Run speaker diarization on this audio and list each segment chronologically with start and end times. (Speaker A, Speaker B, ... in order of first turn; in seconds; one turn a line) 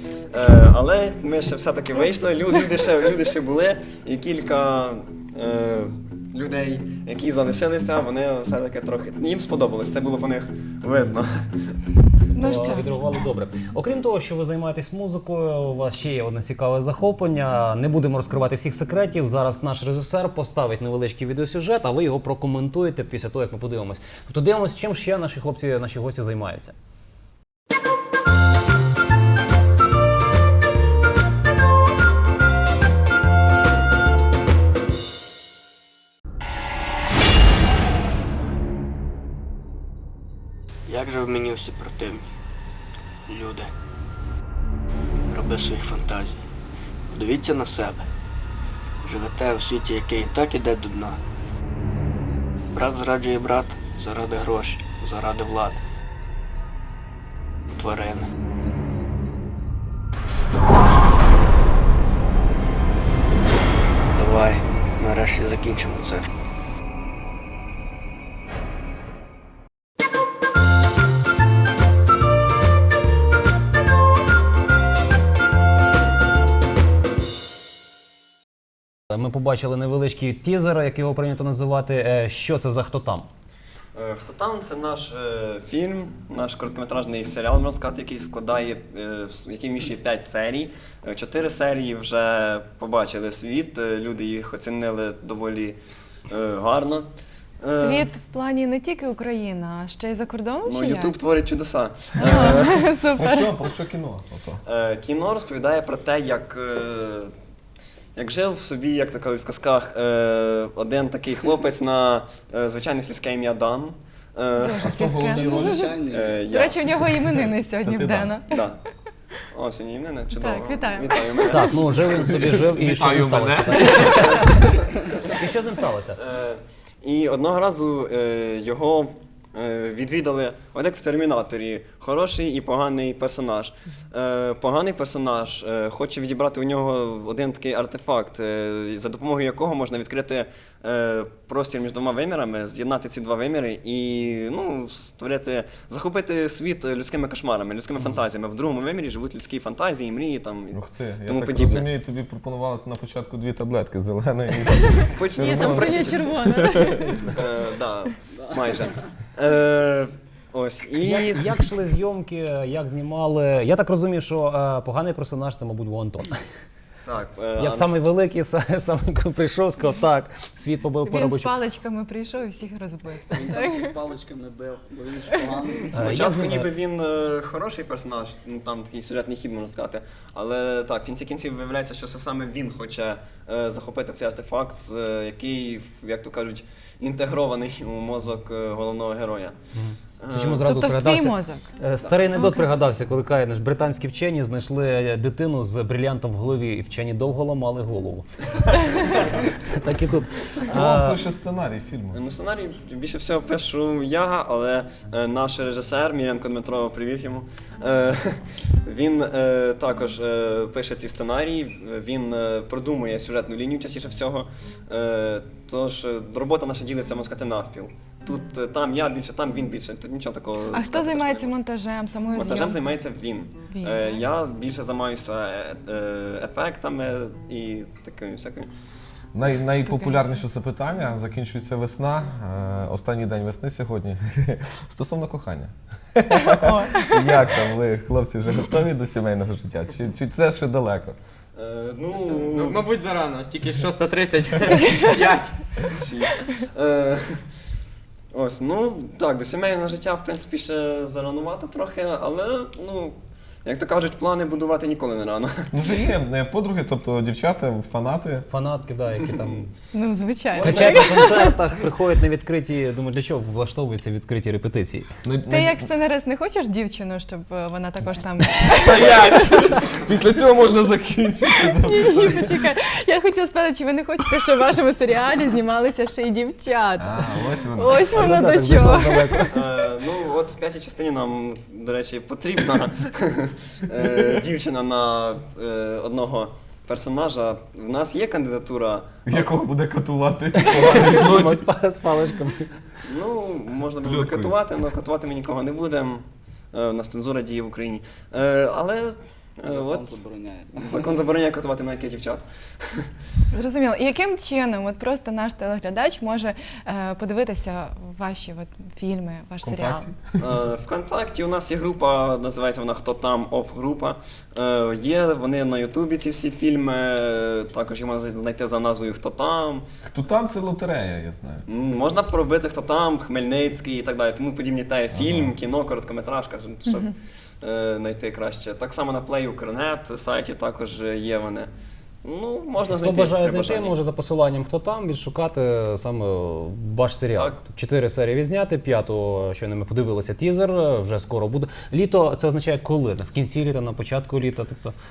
Speaker A: 0.3-11.3
Speaker B: 12.3-12.9
Speaker C: 12.4-26.7
Speaker D: 40.9-42.3
Speaker D: 43.3-43.7
Speaker D: 45.3-46.4
Speaker D: 47.1-48.0
Speaker D: 49.0-51.2
Speaker D: 52.7-55.8
Speaker D: 57.8-58.2
Speaker D: 64.1-66.2
Speaker C: 79.1-83.3
Speaker A: 83.9-95.8
Speaker A: 96.3-97.1
Speaker A: 97.6-98.1
Speaker B: 97.7-101.2
Speaker A: 100.6-102.8
Speaker B: 102.2-103.5
Speaker E: 103.1-104.6
Speaker A: 104.7-107.3
Speaker A: 108.2-114.9
Speaker B: 114.5-115.9
Speaker E: 114.8-115.9
Speaker F: 115.3-116.5
Speaker A: 116.0-116.9
Speaker B: 116.5-118.6
Speaker E: 117.8-118.3
Speaker A: 118.5-118.8
Speaker A: 119.5-121.9
Speaker B: 120.3-121.7
Speaker C: 121.5-126.2
Speaker E: 122.2-123.9
Speaker G: 123.0-123.8
Speaker A: 126.2-151.8
Speaker E: 150.7-157.1
Speaker A: 155.1-156.3
Speaker B: 155.3-157.3
Speaker A: 157.3-161.5
Speaker C: 161.0-166.4
Speaker A: 167.0-167.9
Speaker C: 167.6-171.5
Speaker B: 171.1-173.9
Speaker F: 173.3-176.2
Speaker A: 175.9-189.5
Speaker C: 175.9-176.7
Speaker C: 189.7-198.2
Speaker A: 190.2-190.7
Speaker B: 190.6-191.7
Speaker B: 192.3-192.7
Speaker C: 199.5-201.2
Speaker E: 200.6-202.2
Speaker A: 202.1-221.5
Speaker B: 220.7-222.8
Speaker A: 222.3-228.7
Speaker B: 223.7-224.2
Speaker E: 229.3-241.2
Speaker B: 229.8-230.3
Speaker B: 236.5-237.2
Speaker A: 241.6-242.8
Speaker G: 242.2-245.8
Speaker A: 245.9-247.4
Speaker A: 248.3-255.7
Speaker E: 255.7-258.5
Speaker C: 258.5-259.7
Speaker B: 259.9-261.5
Speaker C: 260.6-265.1
Speaker A: 260.6-261.2
Speaker E: 265.2-265.9
Speaker B: 265.5-269.9
Speaker E: 268.6-272.6
Speaker B: 271.6-279.4
Speaker E: 277.0-278.3
Speaker C: 278.1-279.6
Speaker A: 279.5-289.5
Speaker E: 289.2-291.6
Speaker C: 290.6-292.7
Speaker A: 293.0-300.2
Speaker E: 294.0-294.6
Speaker F: 299.6-301.2
Speaker A: 300.7-303.1
Speaker B: 303.5-310.1
Speaker E: 309.6-310.4
Speaker A: 310.4-319.8
Speaker E: 320.0-321.6
Speaker A: 321.7-331.7
Speaker E: 325.1-325.5
Speaker A: 332.2-333.9
Speaker C: 332.8-344.9